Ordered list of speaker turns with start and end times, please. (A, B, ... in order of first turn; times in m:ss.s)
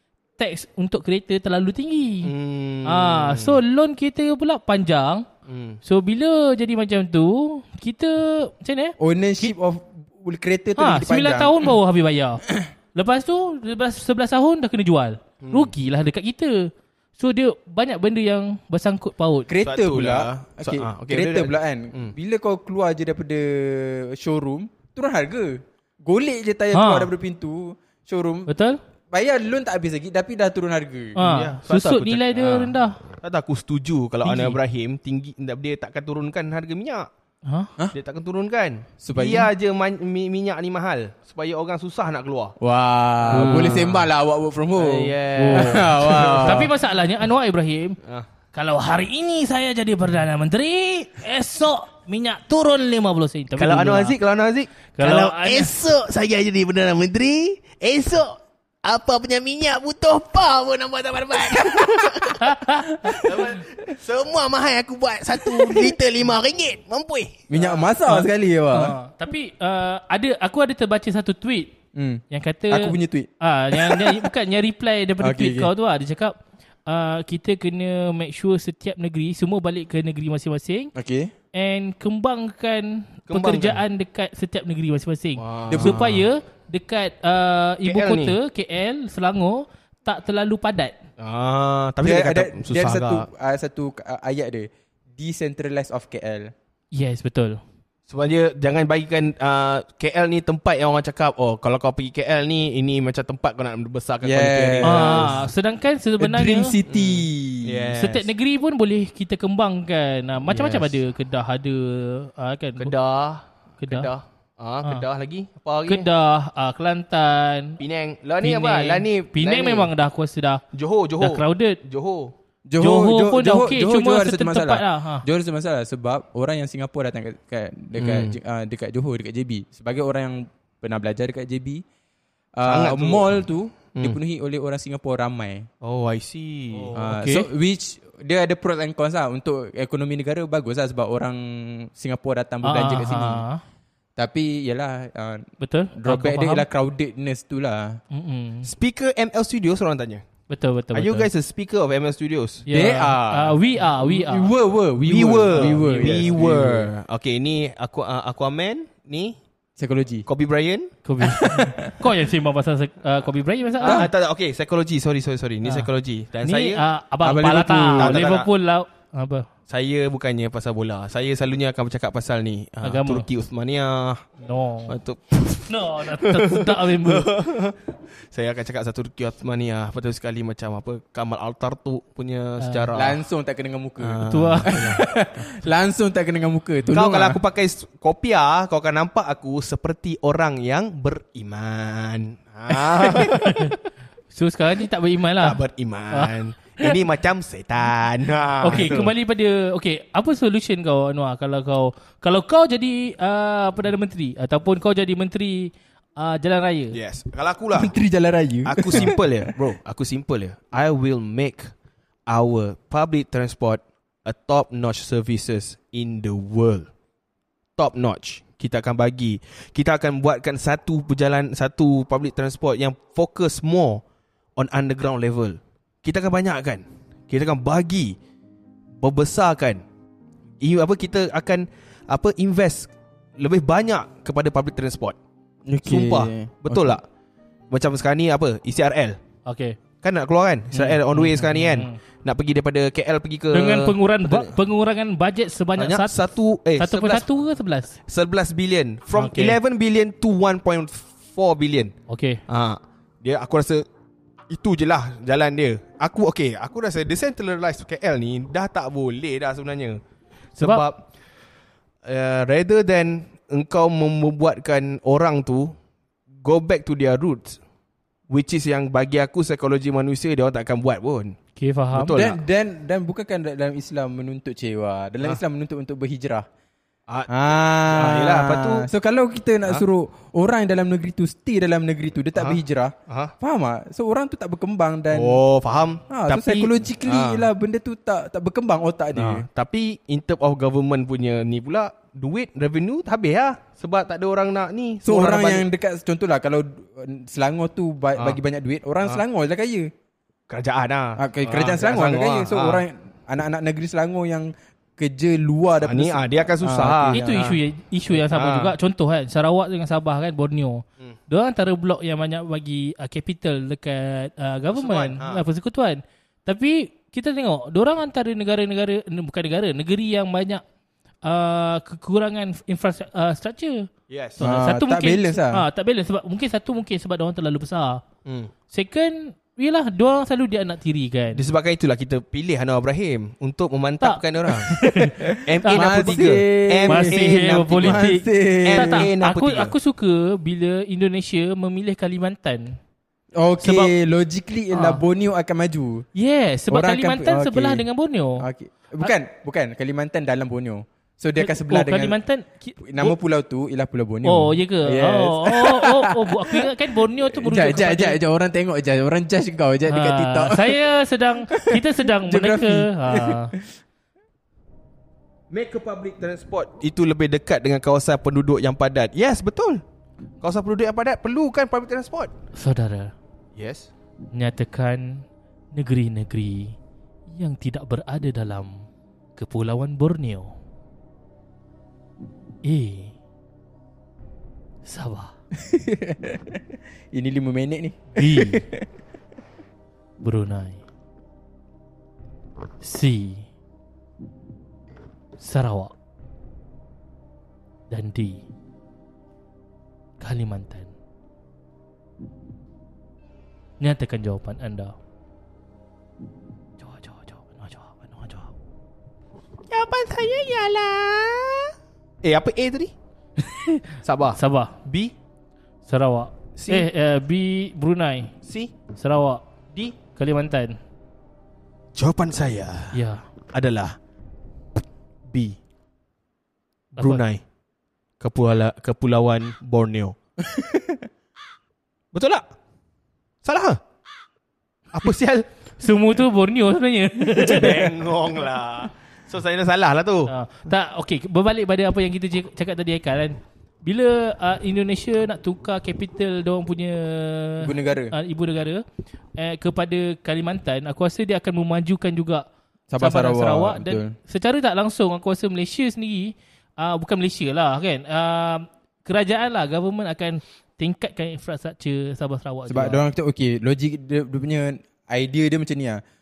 0:00.4-0:02.3 A
0:02.2-0:03.6 B
0:02.8-0:05.3 A
0:05.5-0:05.8 B
0:05.8-0:09.5 A
0:09.0-0:11.7 C
0:10.8-0:19.5 A
0:15.4-0:15.7 B
0:19.5-0:28.5 C
0:19.6-0:22.1 B
0:26.7-0:27.1 A
0:28.5-0:28.8 A
0:29.1-0:31.2 C
0:31.2-0:33.0 A
0:31.2-0:37.1 B
0:34.2-0:34.6 A
0:37.4-0:37.7 A
0:37.9-0:42.6 B
0:39.0-0:39.5 C
0:42.6-0:46.7 C
0:43.3-0:44.1 B
0:43.3-0:43.9 A
0:44.8-0:46.7 B
0:45.5-0:45.8 A
0:46.4-0:48.0 A
0:48.5-0:54.1 A
0:53.6-1:02.7 B
0:55.0-0:55.7 A
1:01.6-1:02.3 C
1:02.4-1:03.2 A
1:02.9-1:03.6 C
1:03.2-1:07.6 B
1:05.6-1:05.9 C
1:07.5-1:08.9 C
1:07.6-1:11.7 A
1:11.9-1:14.3 C
1:12.3-1:20.9 A
1:15.2-1:15.7 C
1:20.9-1:21.3 C
1:21.5-1:30.9 A
1:23.3-1:23.8 B
1:25.4-1:26.2 B
1:25.7-1:26.0 C
1:27.8-1:28.4 B
1:31.2-1:33.2 B
1:32.0-1:36.5 C
1:36.9-1:37.6 A
1:38.1-1:45.4 B
1:44.2-1:45.4 C
1:44.8-1:46.8 A
1:46.2-1:47.9 C
1:46.9-1:48.3 B
1:47.9-1:52.9 A
1:50.5-1:50.9 C
1:52.8-1:56.1 B
1:53.8-1:54.1 A
1:55.9-1:57.8 A
1:57.8-1:59.9 B
1:58.4-2:00.6 A
2:00.7-2:02.3 B
2:01.2-2:01.8 A
2:02.7-2:11.8 C
2:02.8-2:05.2 A
2:08.0-2:08.4 B
2:12.6-2:15.7 C
2:12.6-2:13.4 B
2:15.8-2:16.9 B
2:16.9-2:23.4 C
2:16.9-2:17.4 A
2:22.6-2:23.6 A
2:24.2-2:28.0 C
2:25.6-2:26.6 A
2:28.1-2:28.7 A
2:28.6-2:30.2 B
2:30.5-2:31.3 A
2:30.9-2:32.6 B
2:32.6-2:34.5 A
2:32.7-2:36.9 C
2:35.1-2:39.4 B
2:35.5-2:36.2 A
2:39.8-2:40.3 C
2:40.3-2:40.9 B
2:41.0-2:44.0 A
2:41.2-2:41.9 C
2:43.8-2:46.8 B
2:43.8-2:44.1 C
2:45.6-2:45.9 A
2:46.4-2:49.5 A
2:47.2-2:48.2 C
2:48.0-2:48.5 B
2:49.7-2:54.3 B
2:52.8-2:53.2 A
2:54.4-2:54.9 A
2:54.9-2:57.8 B
2:55.7-2:57.3 A
2:58.3-3:03.2 B
3:02.6-3:02.9 A
3:02.9-3:07.4 C
3:04.0-3:05.0 B
3:04.2-3:04.8 A
3:06.9-3:13.5 B
3:12.7-3:13.4 C
3:13.2-3:13.8 A
3:14.3-3:15.6 A
3:15.4-3:19.1 B
3:16.1-3:17.0 A
3:18.6-3:27.0 A
3:26.9-3:28.0 B
3:27.7-3:29.5 C
3:28.6-3:31.7 B
3:32.3-3:36.9 B
3:37.8-3:44.0 B
3:44.6-3:48.2 B
3:49.0-3:49.8 B
3:50.6-3:55.2 B
3:55.6-3:57.0 C
3:55.8-3:57.0 B
3:57.7-3:59.2 B
3:59.4-3:59.8 A
4:00.0-4:04.6 B
4:00.7-4:02.0 A
4:03.5-4:06.2 A
4:05.8-4:07.2 B
4:06.8-4:07.9 A
4:08.0-4:11.9 B
4:09.1-4:09.6 A
4:12.1-4:12.4 A
4:12.5-4:13.8 B
4:14.5-4:20.0 B
4:20.6-4:21.0 B
4:22.0-4:25.7 B
4:26.4-4:27.6 B
4:28.3-4:31.4 B
4:31.6-4:32.2 A
4:31.9-4:32.4 B
4:32.1-4:36.4 C
4:37.1-4:38.9 B
4:37.3-4:45.4 C
4:42.3-4:43.3 B
4:45.1-4:47.5 B
4:46.1-4:49.4 C
4:49.1-4:55.6 B
4:55.0-4:59.9 C
5:00.5-5:02.8 B
5:01.2-5:07.4 C
5:05.8-5:07.6 B
5:07.1-5:20.6 A
5:08.2-5:08.7 B
5:14.7-5:15.4 B
5:21.2-5:28.0 A
5:24.1-5:24.4 B
5:24.4-5:25.6 C
5:28.2-5:28.5 B
5:28.7-5:31.4 A
5:31.3-5:34.8 B
5:34.0-5:36.2 A
5:35.0-5:39.1 C
5:35.4-5:39.7 B
5:36.9-5:42.8 A
5:43.4-5:46.0 C
5:43.6-5:43.9 A
5:44.7-5:45.0 A
5:46.1-5:48.4 A
5:46.7-5:47.8 C
5:48.4-5:52.2 C
5:51.4-5:53.2 A
5:52.8-5:56.7 C
5:54.2-5:58.2 A
5:57.3-6:00.8 C
5:59.9-6:03.5 A
6:01.5-6:03.8 C
6:05.5-6:09.8 B
6:10.4-6:12.3 B
6:12.5-6:13.1 A
6:13.6-6:13.9 B
6:14.3-6:16.8 A
6:17.3-6:20.5 A
6:22.6-6:23.2 A
6:24.8-6:25.3 A
6:25.6-6:28.8 C
6:28.1-6:28.6 A
6:30.2-6:30.8 A
6:32.8-6:33.5 A
6:35.4-6:35.9 A
6:37.9-6:38.4 A
6:40.2-6:40.9 A
6:43.8-6:44.9 A
6:46.8-6:48.5 A
6:49.7-6:52.9 B
6:53.5-6:55.1 B
6:54.4-6:54.7 A
6:55.8-6:58.3 A
6:56.6-6:56.9 B
6:58.4-6:58.7 B
6:58.9-6:59.4 A
7:00.1-7:00.8 A
7:01.9-7:03.0 B
7:02.9-7:03.2 A
7:03.5-7:04.0 B
7:05.3-7:05.6 B
7:07.0-7:07.2 A
7:07.0-7:07.4 B
7:08.2-7:10.1 B
7:10.4-7:11.1 C
7:12.1-7:12.4 B
7:13.4-7:13.8 B
7:14.9-7:15.5 B
7:15.8-7:17.9 A
7:17.3-7:17.7 C
7:17.4-7:20.3 B
7:20.3-7:28.8 A
7:27.6-7:28.1 C
7:29.4-7:32.4 A
7:32.9-7:34.2 C
7:33.0-7:43.0 A
7:42.7-7:46.0 C